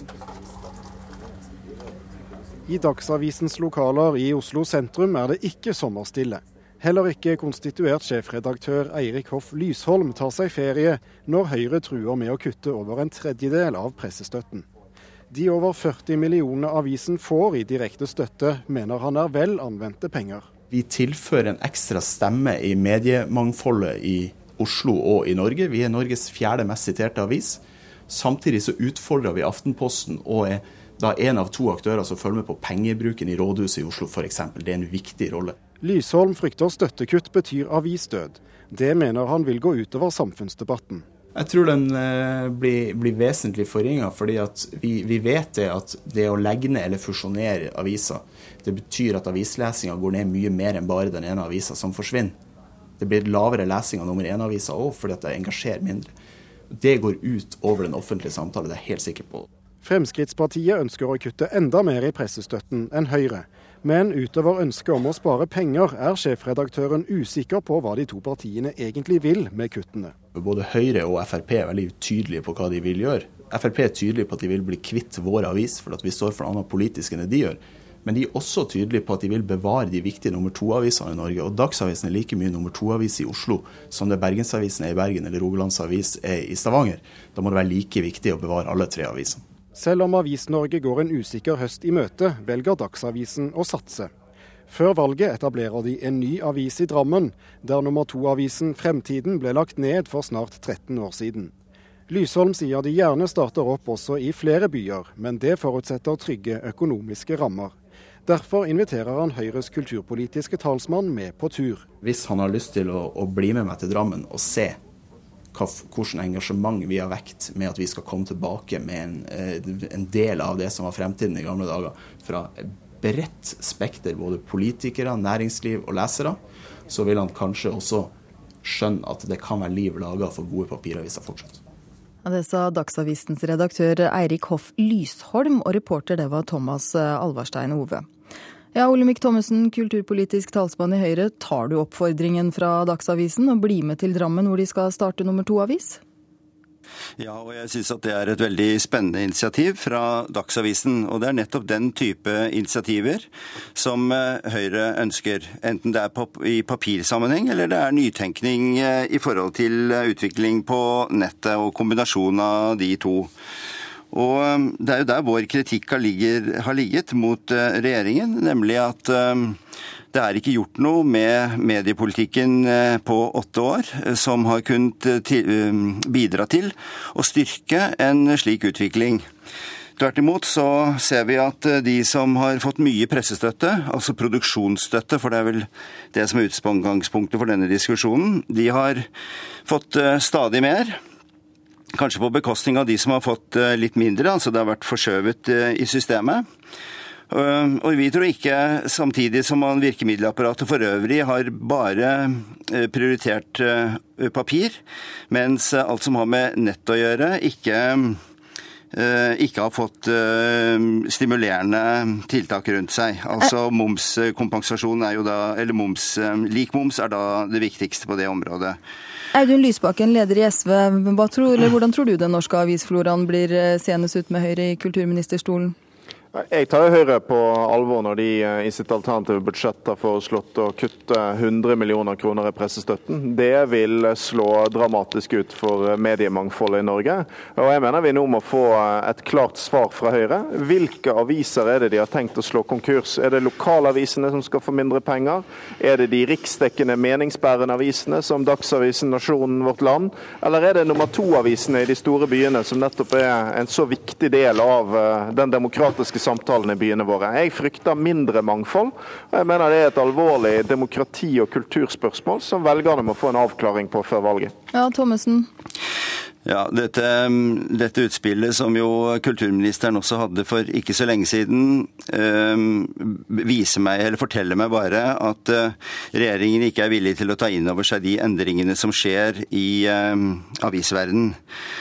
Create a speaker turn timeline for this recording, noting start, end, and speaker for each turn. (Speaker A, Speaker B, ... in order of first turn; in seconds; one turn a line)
Speaker A: 2.7-14.7
Speaker A: 15.3-20.5
Speaker B: 20.7-35.6
Speaker A: 35.8-41.0
Speaker B: 41.4-52.4
Speaker B: 53.0-56.1
Speaker B: 56.7-59.5
Speaker A: 59.8-70.1
Speaker B: 70.3-89.4
Speaker A: 89.8-94.1
Speaker A: 94.7-101.5
Speaker A: 102.1-107.7
Speaker A: 108.3-111.8
Speaker B: 112.0-114.8
Speaker B: 115.5-126.4
Speaker B: 126.9-128.1
Speaker B: 128.6-131.6
Speaker C: 132.2-138.1
Speaker C: 138.7-146.0
Speaker D: 147.2-163.3
Speaker D: 164.1-169.6
Speaker D: 170.1-179.2
Speaker D: 180.0-189.1
Speaker D: 189.7-191.0
Speaker D: 191.9-196.4
Speaker D: 197.3-208.2
Speaker D: 208.9-218.8
Speaker C: 219.3-225.7
Speaker E: 226.3-264.5
Speaker C: 264.7-265.5
Speaker D: 266.4-281.4